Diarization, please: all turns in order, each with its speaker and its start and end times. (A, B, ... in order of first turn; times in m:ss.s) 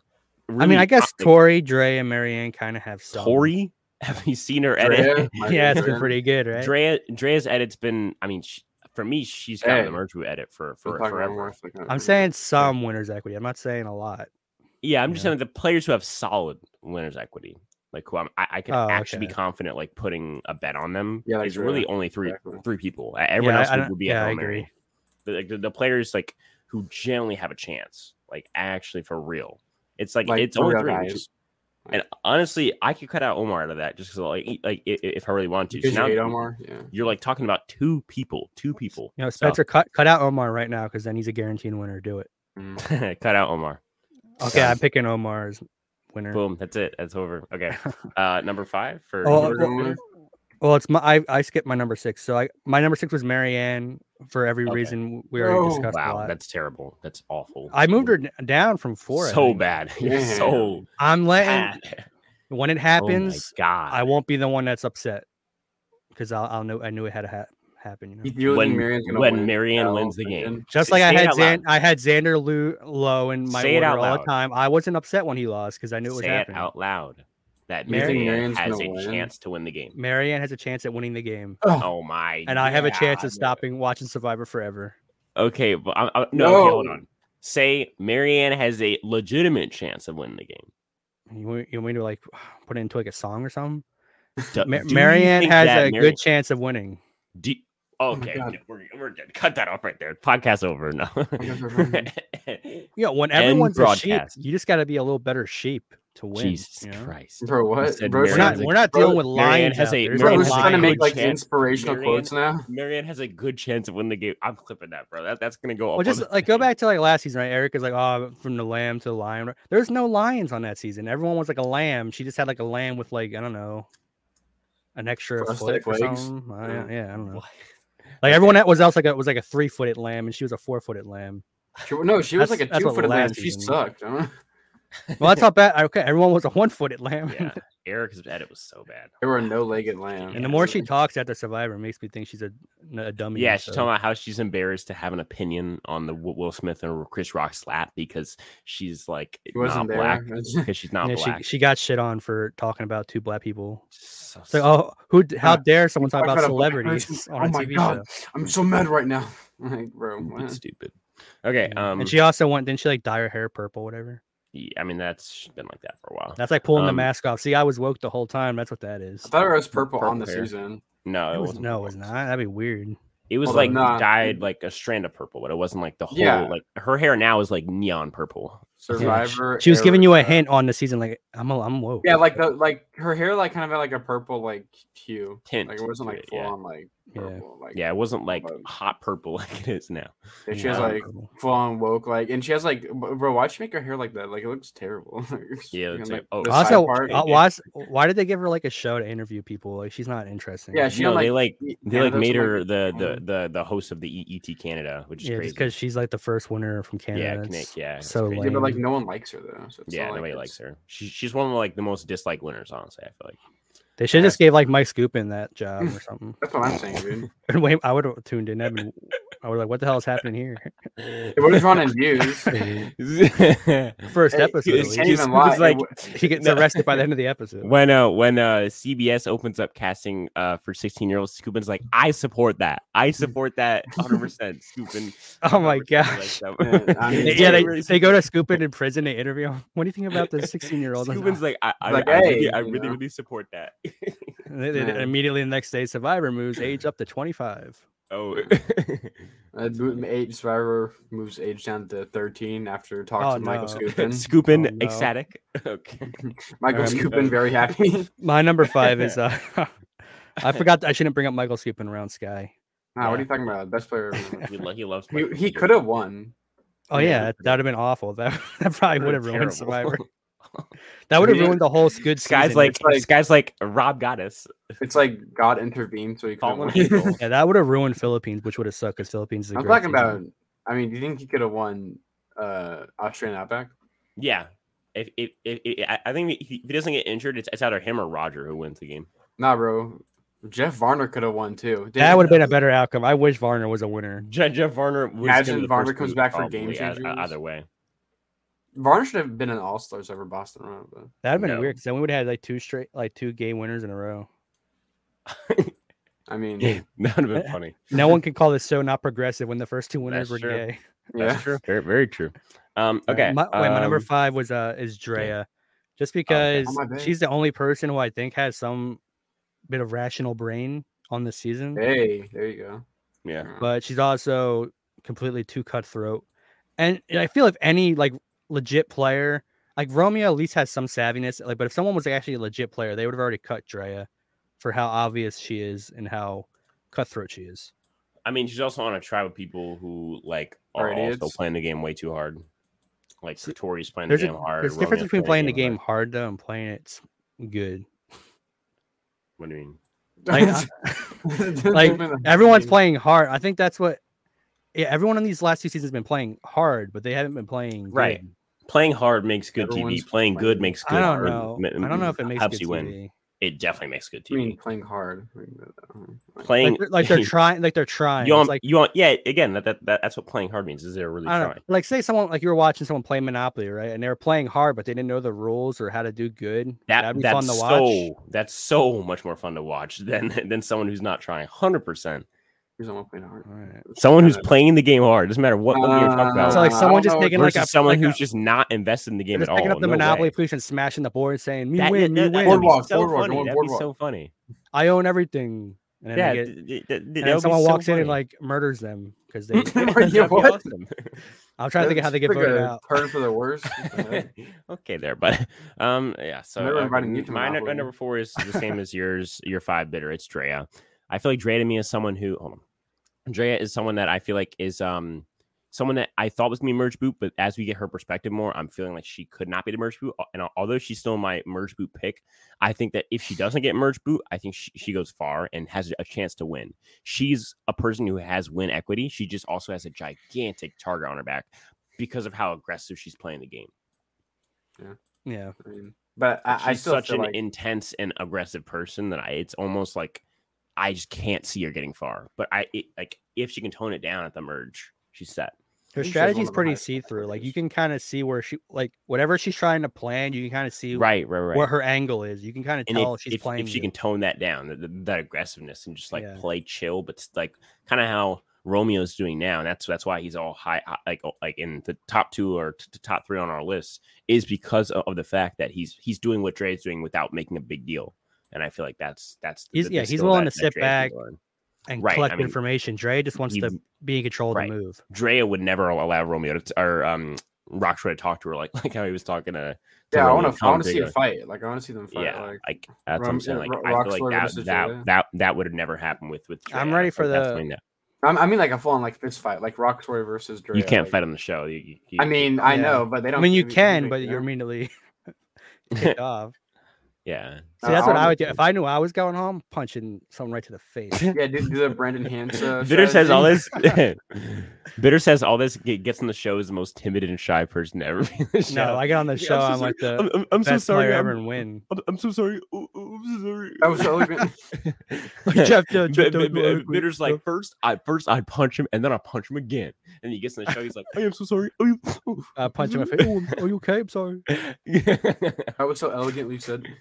0:00.5-0:01.4 A
0:00.6-0:03.5 B
0:03.1-0:05.9 A
0:04.8-0:06.1 C
0:05.4-0:06.7 B
0:06.5-0:11.5 A
0:09.6-0:10.0 C
0:10.8-0:12.3 C
0:11.9-0:14.3 B
0:14.8-0:24.7 A
0:18.7-0:19.3 B
0:21.2-0:22.6 C
0:23.4-0:24.7 B
0:25.2-0:31.2 A
0:30.2-0:31.2 C
0:31.9-0:36.3 A
0:35.7-0:36.9 C
0:36.9-0:39.6 A
0:39.2-0:42.3 B
0:42.6-0:42.8 C
0:42.8-0:43.8 A
0:44.4-0:46.4 B
0:44.4-0:44.8 A
0:46.3-0:50.0 A
0:49.2-0:49.9 B
0:49.3-0:50.0 C
0:50.6-0:56.3 B
0:54.7-0:55.0 A
0:55.4-0:55.9 C
0:55.9-0:58.1 A
0:57.7-0:59.6 B
0:59.1-1:00.8 A
1:00.0-1:00.8 C
1:01.0-1:01.8 B
1:01.4-1:02.0 A
1:02.5-1:05.2 B
1:03.0-1:04.1 A
1:06.1-1:08.3 B
1:08.2-1:10.6 C
1:08.5-1:11.6 A
1:10.7-1:16.7 B
1:13.5-1:14.3 A
1:16.1-1:20.0 A
1:17.9-1:18.2 B
1:17.9-1:19.3 C
1:19.9-1:21.6 B
1:21.6-1:21.9 C
1:21.8-1:23.6 A
1:22.5-1:25.0 B
1:25.4-1:30.7 A
1:26.3-1:27.0 C
1:31.3-1:33.8 B
1:34.5-1:36.2 A
1:34.6-1:37.0 B
1:37.4-1:44.4 A
1:38.1-1:38.5 C
1:41.4-1:42.1 C
1:43.0-1:47.1 B
1:46.3-1:56.6 A
1:47.4-1:49.2 C
1:48.3-1:51.0 B
1:50.1-1:52.7 C
1:56.0-2:03.9 B
2:04.9-2:07.4 B
2:05.4-2:06.9 C
2:07.2-2:07.6 A
2:08.2-2:08.6 A
2:08.2-2:11.4 B
2:11.8-2:14.3 C
2:12.4-2:13.7 B
2:15.1-2:15.4 A
2:15.2-2:17.6 B
2:17.3-2:19.1 A
2:19.2-2:20.9 C
2:20.1-2:20.7 A
2:20.3-2:23.9 B
2:23.3-2:31.4 A
2:29.5-2:30.7 C
2:31.0-2:33.8 B
2:33.9-2:34.7 A
2:34.5-2:38.0 B
2:35.4-2:40.6 C
2:40.2-2:42.2 A
2:41.6-2:44.2 B
2:44.5-2:47.1 A
2:46.4-2:49.3 B
2:49.2-2:50.8 C
2:49.7-2:50.5 A
2:51.0-2:52.0 A
2:51.3-2:53.0 B
2:53.3-2:59.3 A
2:53.4-2:54.4 C
2:53.5-2:53.8 B
2:56.1-2:56.6 C
2:58.8-3:00.4 C
2:59.0-3:02.2 B
3:02.0-3:08.6 C
3:05.5-3:06.5 A
3:07.1-3:07.4 B
3:07.7-3:11.0 A
3:10.5-3:17.4 C
3:10.5-3:11.3 B
3:15.7-3:17.4 A
3:16.5-3:20.9 B
3:20.7-3:23.2 C
3:20.9-3:25.7 A
3:25.2-3:28.8 B
3:27.1-3:28.8 A
3:28.4-3:30.5 C
3:29.9-3:33.4 A
3:34.0-3:36.4 B
3:34.1-3:34.4 A
3:35.8-3:37.3 C
3:37.5-3:40.7 B
3:41.0-3:47.0 A
3:41.4-3:42.5 C
3:42.5-3:42.9 B
3:44.1-3:45.1 B
3:44.3-3:46.0 C
3:46.1-3:47.7 B
3:47.6-3:58.6 A
3:55.4-3:56.4 B
3:56.6-3:57.7 C
3:57.2-4:01.4 B
4:00.1-4:04.4 A
4:01.8-4:03.0 C
4:04.5-4:07.8 B
4:04.7-4:05.1 C
4:08.1-4:09.3 A
4:09.5-4:14.3 C
4:13.2-4:13.8 B
4:13.8-4:16.2 A
4:14.5-4:15.1 B
4:16.6-4:18.1 C
4:16.7-4:17.1 B
4:16.8-4:17.4 A
4:18.2-4:19.7 B
4:18.8-4:19.2 A
4:20.4-4:20.6 A
4:20.4-4:22.5 B
4:23.0-4:24.5 C
4:24.4-4:25.8 A
4:25.1-4:26.3 C
4:26.9-4:30.0 B
4:26.9-4:27.6 A
4:28.9-4:30.7 A
4:31.1-4:32.8 B
4:31.2-4:31.6 C
4:32.2-4:34.5 A
4:32.7-4:33.0 C
4:34.8-4:37.1 C
4:36.4-4:37.2 A
4:37.2-4:40.2 B
4:39.5-4:43.7 C
4:44.2-4:49.1 A
4:49.4-4:52.5 C
4:52.0-4:54.2 B
4:54.2-4:57.6 A
4:55.2-4:57.3 C
4:58.7-5:01.1 C
5:01.2-5:04.3 B
5:01.4-5:01.8 A
5:05.3-5:05.7 A
5:06.3-5:06.8 C
5:06.6-5:08.0 A
5:07.4-5:10.8 B
5:10.0-5:10.6 A
5:11.1-5:11.5 C
5:11.2-5:14.1 A
5:13.1-5:15.5 B
5:16.0-5:19.0 B
5:16.3-5:16.7 A
5:16.6-5:17.1 C
5:19.7-5:21.8 B
5:21.8-5:22.8 C
5:23.4-5:23.7 C
5:23.6-5:26.2 B
5:26.8-5:34.1 B
5:34.6-5:37.7 B
5:38.2-5:42.4 A
5:40.8-5:41.3 C
5:43.2-5:45.8 A
5:44.1-5:47.9 B
5:49.4-5:49.8 A
5:50.2-5:50.7 C
5:50.3-5:51.2 B
5:51.2-5:52.8 C
5:51.7-5:54.0 B
5:54.7-5:58.3 B
5:57.9-6:04.6 A
5:59.6-6:01.1 C
6:00.8-6:03.1 B
6:04.3-6:06.5 C
6:06.4-6:07.3 A
6:06.6-6:08.6 B
6:08.2-6:11.6 A
6:11.2-6:18.1 B
6:16.9-6:22.2 A
6:22.8-6:24.5 C
6:23.5-6:23.8 B
6:24.0-6:30.3 A
6:25.7-6:27.5 C
6:26.5-6:28.2 B
6:29.3-6:32.8 B
6:31.8-6:34.3 A
6:32.4-6:33.8 C
6:34.7-6:36.5 B
6:36.2-6:38.2 A
6:37.2-6:40.4 B
6:39.6-6:41.2 A
6:39.6-6:40.7 C
6:41.6-6:42.8 B
6:41.8-6:44.3 C
6:43.8-6:52.6 A
6:46.6-6:47.9 C
6:53.3-7:13.7 A
7:15.2-7:15.5 B
7:15.6-7:17.4 C
7:16.5-7:20.2 A
7:20.8-7:25.5 A
7:25.9-7:33.9 B
7:26.0-7:27.5 C
7:30.9-7:31.7 A
7:32.9-7:51.4 A
7:36.1-7:36.4 B
7:49.7-7:51.1 B
7:51.9-7:55.0 B
7:52.0-7:52.6 A
7:53.4-7:53.8 A
7:54.5-8:01.1 A
8:00.1-8:02.6 C
8:02.1-8:07.8 A
8:03.2-8:05.0 C
8:06.7-8:07.6 B
8:08.2-8:11.2 C
8:10.7-8:12.6 A
8:12.2-8:14.4 C
8:12.6-8:14.9 B
8:15.9-8:16.5 B
8:17.2-8:18.5 A
8:17.8-8:18.4 C
8:17.8-8:21.3 B
8:21.1-8:21.9 A
8:21.3-8:23.7 C
8:22.5-8:43.6 A
8:23.7-8:24.0 B
8:28.7-8:31.8 B
8:33.8-8:34.6 C
8:35.4-8:37.4 B
8:42.6-8:44.4 B
8:44.5-8:45.7 A
8:45.8-8:46.9 C